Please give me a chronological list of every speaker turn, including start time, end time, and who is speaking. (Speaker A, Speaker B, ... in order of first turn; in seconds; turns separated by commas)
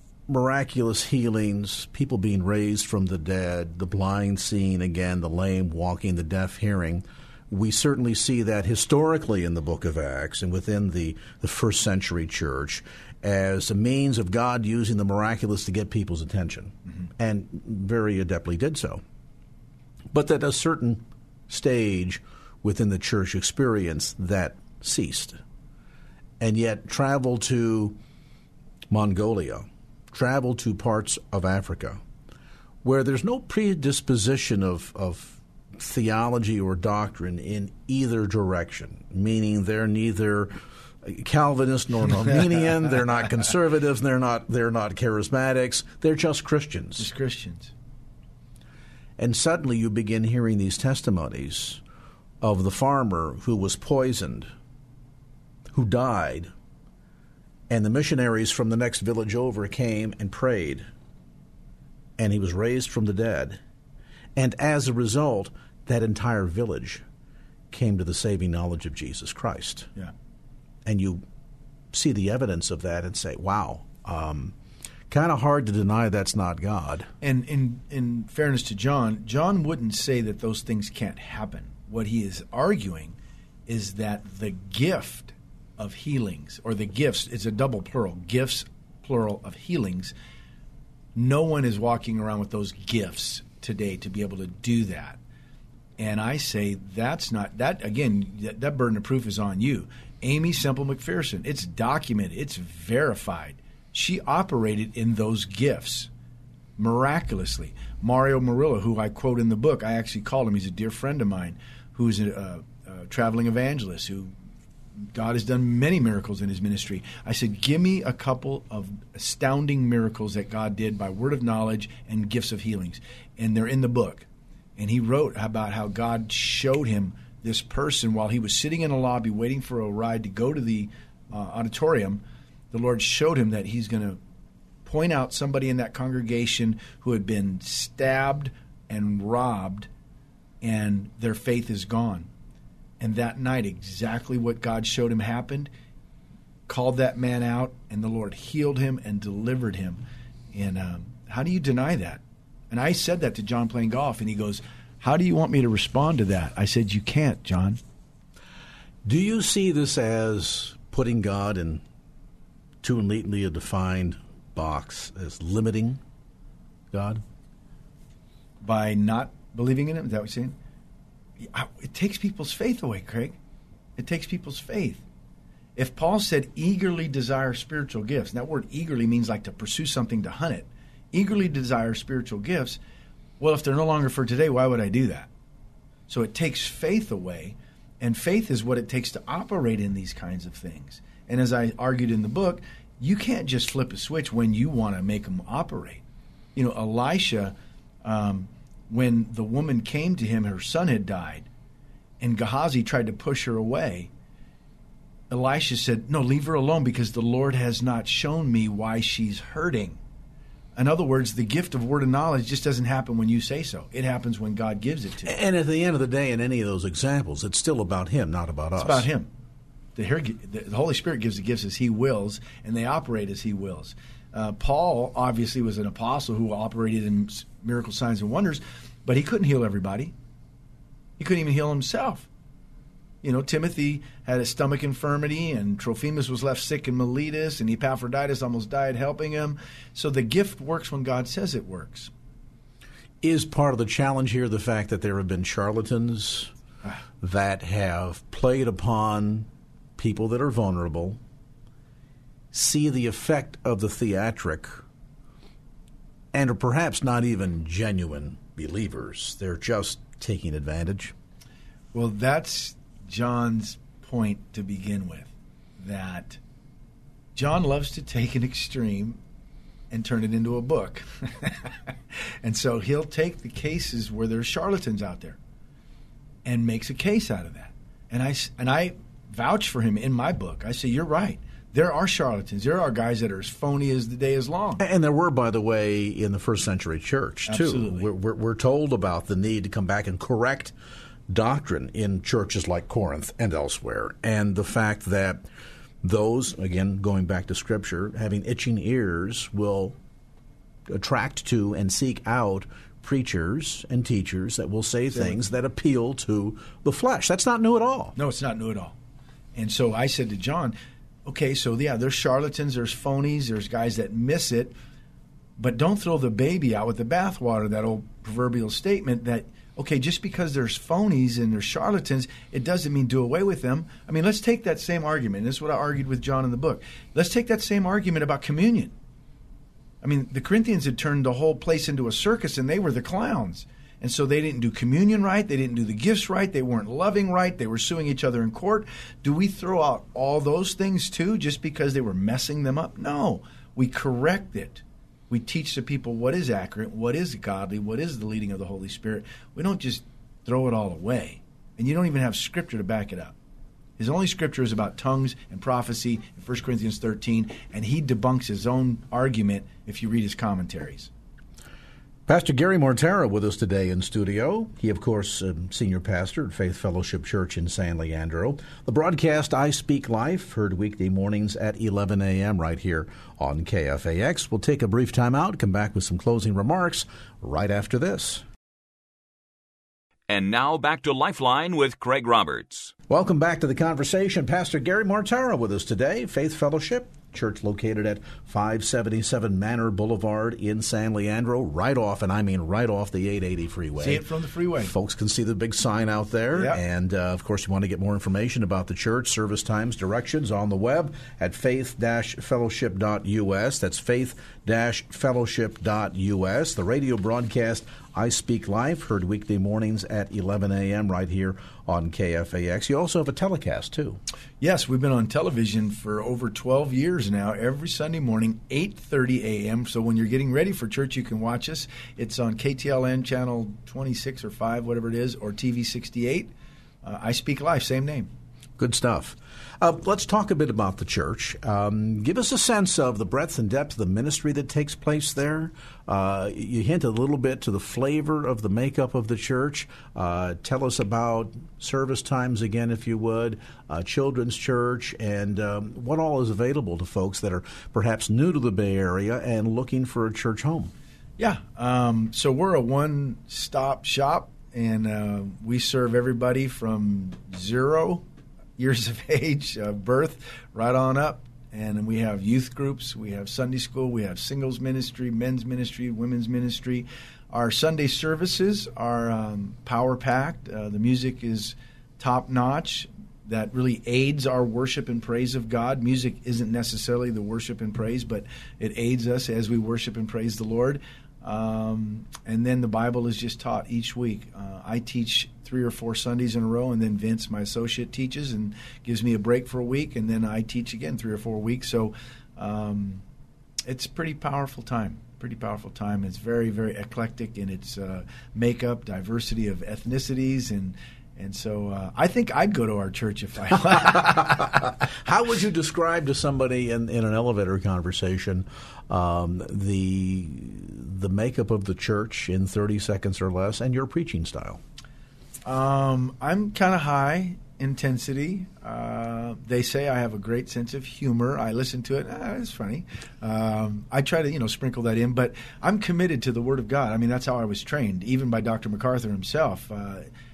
Speaker A: 0.3-19.0, Speaker A: 20.1-25.4, Speaker A: 26.4-28.0, Speaker A: 28.9-32.0, Speaker A: 32.8-47.1, Speaker B: 47.0-47.7, Speaker A: 49.2-51.8, Speaker A: 52.4-54.5, Speaker A: 55.7-56.5, Speaker A: 57.7-60.9, Speaker A: 62.2-63.6, Speaker A: 64.3-67.0, Speaker A: 67.7-69.9, Speaker A: 70.8-71.2, Speaker A: 71.9-74.5, Speaker A: 75.1-77.1, Speaker B: 77.2-83.2, Speaker B: 83.7-90.1, Speaker B: 91.1-95.2, Speaker B: 96.0-106.1, Speaker B: 106.8-114.3, Speaker B: 115.1-134.2, Speaker B: 134.8-139.9, Speaker B: 140.6-142.3, Speaker B: 143.0-145.7, Speaker B: 146.7-157.8, Speaker A: 159.0-161.8, Speaker A: 162.8-166.0, Speaker A: 166.9-167.2, Speaker B: 168.6-170.5, Speaker B: 171.4-173.4, Speaker B: 174.0-175.0, Speaker B: 175.8-182.8, Speaker B: 183.4-185.3, Speaker B: 186.1-196.0, Speaker B: 196.5-201.5, Speaker B: 202.2-204.1, Speaker B: 205.3-210.0, Speaker B: 210.8-215.3, Speaker A: 215.2-219.1, Speaker B: 218.8-219.3, Speaker B: 219.9-230.1, Speaker B: 231.2-232.3, Speaker B: 233.2-242.1, Speaker A: 243.2-246.5, Speaker A: 247.2-251.2, Speaker A: 252.5-254.8, Speaker A: 256.3-261.1, Speaker B: 261.9-266.4, Speaker B: 267.3-269.2, Speaker B: 269.9-271.7, Speaker B: 272.4-275.4, Speaker B: 276.4-284.8, Speaker A: 284.8-290.7, Speaker B: 287.4-288.0, Speaker A: 291.3-295.4, Speaker A: 296.0-299.9, Speaker A: 300.9-308.1, Speaker B: 305.1-305.4, Speaker B: 308.1-308.9, Speaker B: 309.5-310.7, Speaker B: 311.2-314.7, Speaker B: 315.6-328.9, Speaker B: 330.0-353.3, Speaker B: 354.0-361.1, Speaker A: 362.3-378.4, Speaker C: 380.3-382.9, Speaker A: 383.1-394.2, Speaker B: 394.0-394.9, Speaker A: 394.8-414.2, Speaker B: 396.5-396.8, Speaker B: 414.6-426.5, Speaker B: 427.0-428.3, Speaker A: 428.8-450.9, Speaker B: 451.4-458.2, Speaker B: 458.8-493.2, Speaker B: 493.9-504.9, Speaker A: 504.1-514.8, Speaker B: 515.6-530.3